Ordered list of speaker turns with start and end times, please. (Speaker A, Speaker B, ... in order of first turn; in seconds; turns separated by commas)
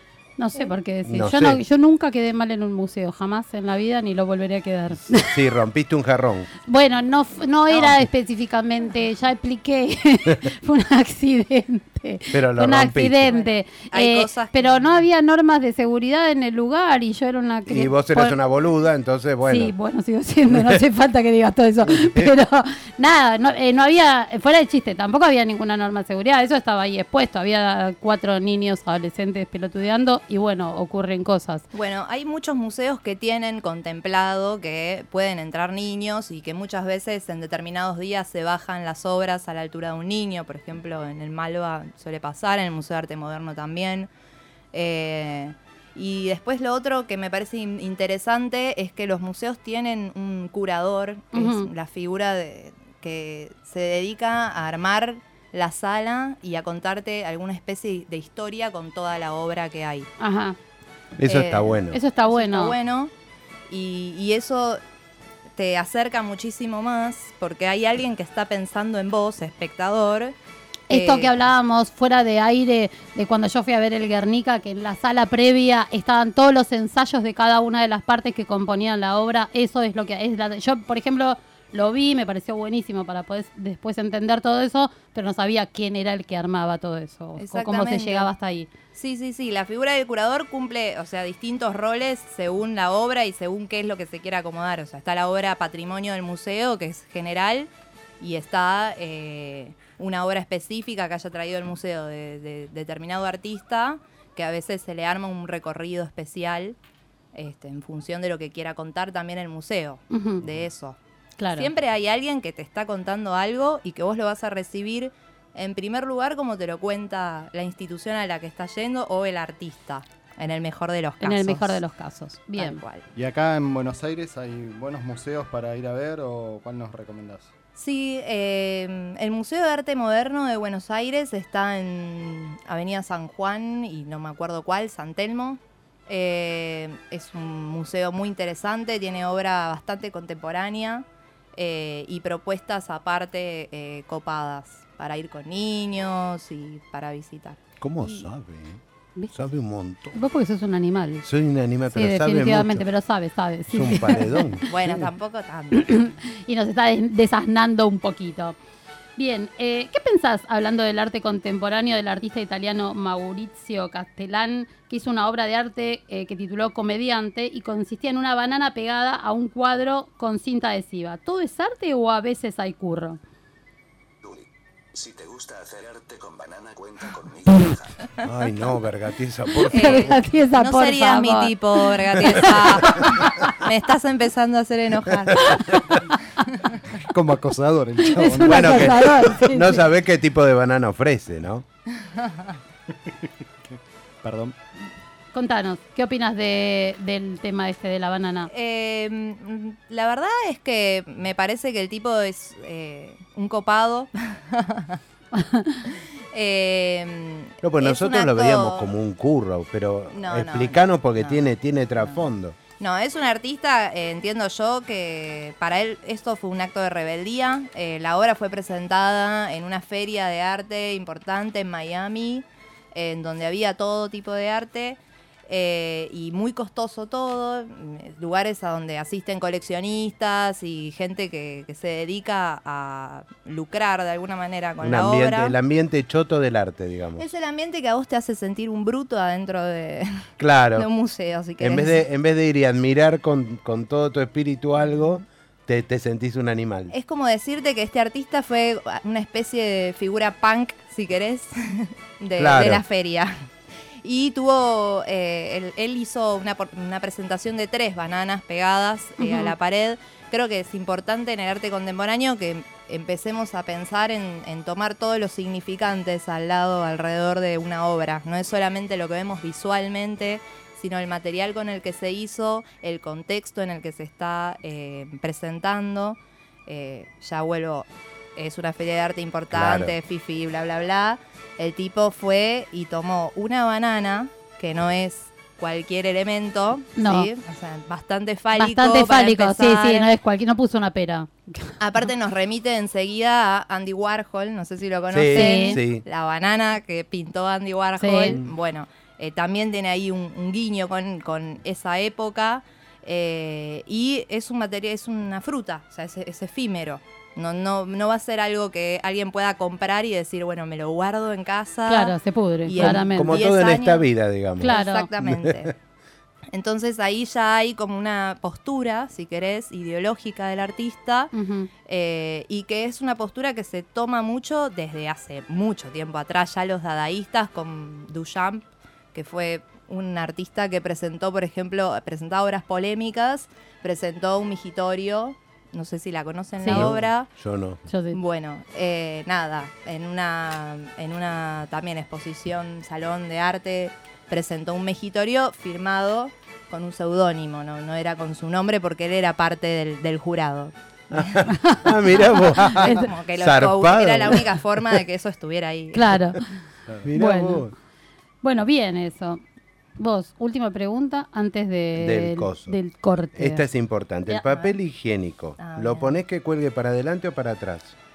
Speaker A: 0.4-5.3, Speaker B: 1.0-1.6, Speaker B: 5.0-6.5, Speaker A: 6.7-18.4, Speaker C: 7.7-8.0, Speaker B: 12.3-13.3, Speaker C: 13.3-15.0, Speaker B: 17.6-19.7, Speaker A: 19.4-31.6, Speaker B: 20.5-20.8, Speaker B: 21.8-22.3, Speaker C: 31.7-44.1, Speaker C: 44.7-60.1, Speaker A: 51.3-51.7, Speaker A: 60.2-60.5, Speaker B: 61.2-62.0, Speaker C: 61.2-63.1, Speaker A: 61.9-62.7, Speaker C: 63.7-64.8, Speaker C: 65.5-70.3, Speaker A: 70.9-88.7, Speaker C: 70.9-71.3, Speaker C: 87.4-88.3, Speaker C: 88.9-97.7, Speaker C: 98.2-106.8, Speaker C: 107.3-111.0, Speaker A: 110.1-110.4, Speaker A: 111.4-111.7, Speaker C: 111.5-121.8, Speaker A: 121.2-122.8, Speaker C: 122.6-123.1, Speaker D: 123.1-127.5, Speaker C: 127.8-148.2, Speaker B: 147.8-150.2, Speaker A: 150.1-151.2, Speaker B: 151.2-152.8, Speaker A: 151.9-154.6, Speaker B: 153.7-155.0, Speaker C: 154.6-156.1, Speaker A: 155.7-158.6, Speaker A: 159.2-173.2, Speaker E: 174.2-177.9, Speaker B: 178.2-180.2, Speaker A: 179.7-183.3, Speaker C: 179.7-186.0, Speaker B: 185.5-185.9, Speaker D: 187.0-189.0, Speaker A: 188.0-189.8, Speaker B: 188.5-191.6, Speaker D: 193.7-194.5, Speaker A: 195.3-198.5, Speaker C: 198.5-205.0, Speaker A: 205.3-205.8, Speaker C: 206.3-208.9, Speaker B: 207.6-212.6, Speaker C: 210.1-211.4, Speaker C: 212.0-212.2, Speaker C: 212.8-235.5, Speaker B: 234.8-237.2, Speaker C: 237.2-240.2, Speaker B: 240.4-240.9, Speaker C: 240.7-242.0, Speaker B: 241.6-246.9, Speaker C: 246.9-253.4, Speaker B: 252.4-252.8, Speaker C: 254.0-290.1, Speaker A: 259.2-259.5, Speaker B: 279.5-279.9, Speaker A: 287.0-287.3, Speaker A: 288.5-291.7, Speaker C: 291.8-314.0, Speaker B: 295.1-296.0, Speaker A: 295.4-295.8, Speaker A: 298.0-298.4, Speaker A: 311.9-313.4, Speaker B: 312.8-315.7, Speaker A: 314.6-315.1, Speaker C: 314.6-315.7, Speaker C: 316.5-321.3, Speaker A: 321.3-321.7, Speaker C: 321.8-337.3, Speaker A: 336.6-336.9, Speaker B: 336.7-337.8, Speaker A: 337.9-338.2, Speaker C: 338.1-351.4, Speaker B: 351.1-355.0, Speaker A: 351.5-353.0, Speaker C: 352.3-356.1, Speaker A: 355.9-356.4, Speaker B: 357.0-357.7, Speaker A: 357.1-357.7, Speaker A: 358.4-359.4, Speaker A: 360.0-363.6, Speaker B: 361.9-362.8, Speaker B: 363.3-367.9, Speaker A: 364.3-364.7, Speaker C: 365.6-366.2